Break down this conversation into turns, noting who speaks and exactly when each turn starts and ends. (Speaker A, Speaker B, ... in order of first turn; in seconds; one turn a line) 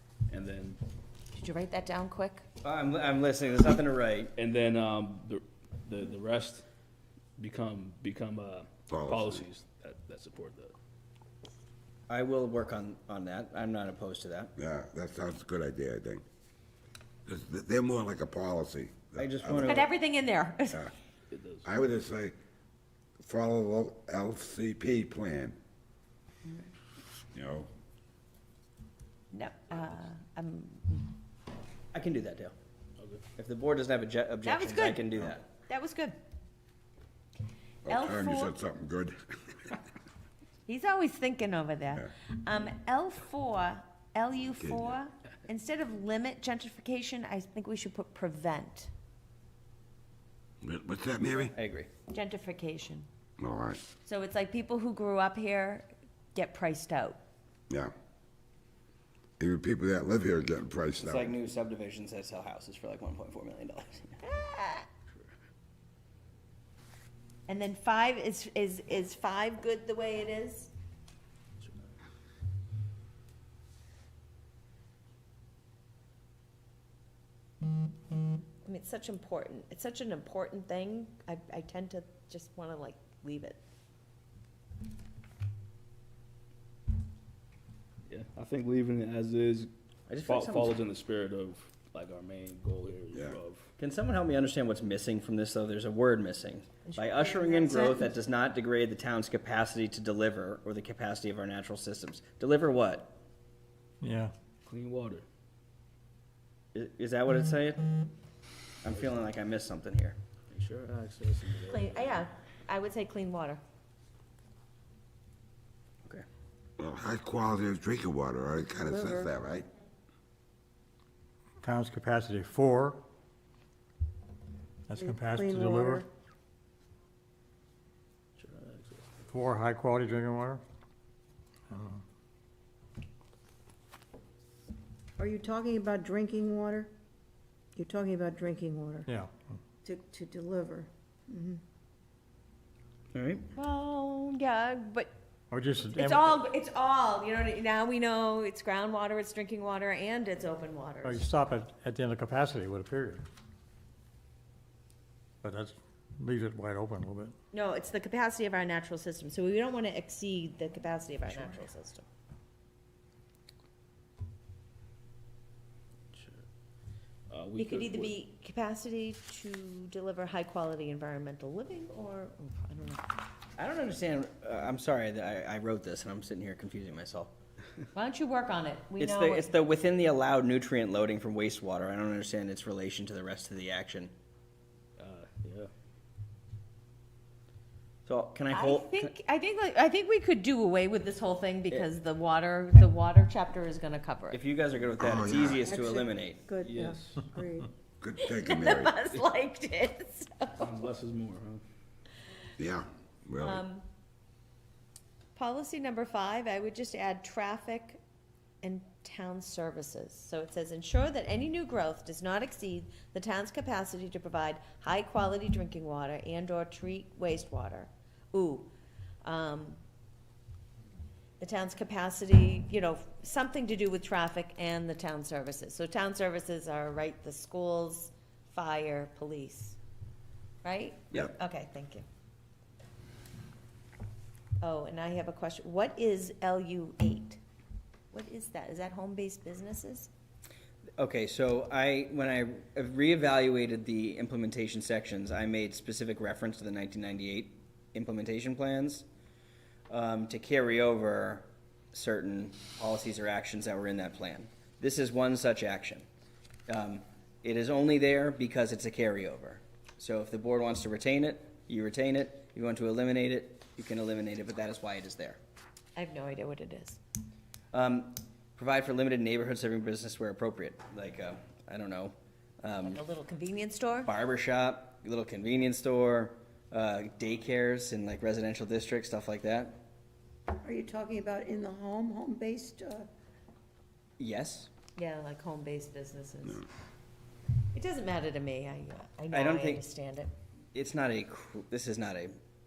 Speaker A: 0.3-0.8
Speaker B: 1.3-2.4
Speaker C: 2.6-4.3
Speaker A: 4.4-6.7
Speaker A: 7.4-10.8
Speaker D: 8.9-9.4
Speaker C: 12.1-14.5
Speaker D: 14.6-16.2
Speaker D: 17.3-19.8
Speaker C: 19.2-19.9
Speaker B: 19.6-20.9
Speaker A: 21.3-21.7
Speaker D: 21.6-22.4
Speaker D: 23.2-25.6
Speaker B: 26.4-26.7
Speaker D: 27.3-27.7
Speaker B: 29.3-31.2
Speaker C: 31.9-32.5
Speaker C: 33.4-35.5
Speaker B: 34.4-36.2
Speaker D: 37.9-39.2
Speaker B: 37.9-38.5
Speaker B: 40.7-48.9
Speaker D: 44.5-45.0
Speaker D: 50.6-51.5
Speaker C: 51.4-51.9
Speaker B: 52.1-53.1
Speaker D: 53.4-53.8
Speaker B: 54.0-57.2
Speaker D: 59.4-61.4
Speaker C: 61.0-64.2
Speaker B: 64.2-64.9
Speaker B: 67.5-70.7
Speaker B: 78.6-83.6
Speaker A: 88.1-89.7
Speaker C: 90.1-90.8
Speaker A: 90.2-93.7
Speaker D: 93.1-93.4
Speaker C: 93.8-103.2
Speaker B: 96.9-98.0
Speaker E: 104.0-104.3
Speaker A: 104.7-105.2
Speaker C: 106.7-108.1
Speaker C: 108.8-110.2
Speaker A: 108.9-109.2
Speaker A: 110.5-112.3
Speaker B: 111.7-113.6
Speaker D: 116.8-119.7
Speaker F: 118.9-119.3
Speaker E: 121.6-123.0
Speaker E: 124.9-126.0
Speaker F: 125.0-126.1
Speaker A: 128.4-129.1
Speaker E: 129.3-130.6
Speaker E: 131.7-132.0
Speaker F: 135.2-136.9
Speaker F: 137.8-139.1
Speaker F: 139.8-141.6
Speaker C: 143.1-143.5
Speaker B: 143.5-145.1
Speaker E: 145.5-146.4
Speaker B: 145.9-151.2
Speaker E: 151.0-153.2
Speaker E: 155.4-157.3
Speaker B: 157.5-162.1
Speaker A: 166.1-166.4
Speaker A: 167.3-168.2
Speaker B: 167.6-173.1
Speaker C: 173.6-177.3
Speaker B: 177.9-179.5
Speaker C: 179.0-184.1
Speaker A: 185.0-185.7
Speaker C: 188.1-189.1
Speaker B: 188.5-194.4
Speaker C: 194.3-196.4
Speaker D: 195.0-195.6
Speaker F: 195.7-197.7
Speaker A: 196.6-197.2
Speaker D: 198.0-199.0
Speaker B: 198.2-200.6
Speaker A: 200.6-201.6
Speaker D: 202.6-203.6
Speaker B: 203.4-203.9
Speaker B: 205.3-208.0
Speaker B: 208.6-218.7
Speaker B: 219.2-219.8
Speaker B: 221.4-229.8
Speaker B: 230.6-232.1
Speaker B: 234.6-237.4
Speaker B: 238.1-240.1
Speaker C: 241.0-249.1
Speaker C: 249.9-256.1
Speaker C: 256.7-265.4
Speaker B: 266.0-267.0
Speaker C: 267.7-273.0
Speaker B: 272.8-274.1
Speaker C: 274.1-279.8
Speaker F: 280.6-283.1
Speaker C: 284.2-284.7
Speaker B: 285.0-286.6
Speaker B: 287.7-290.3
Speaker C: 289.3-289.8
Speaker C: 290.8-292.4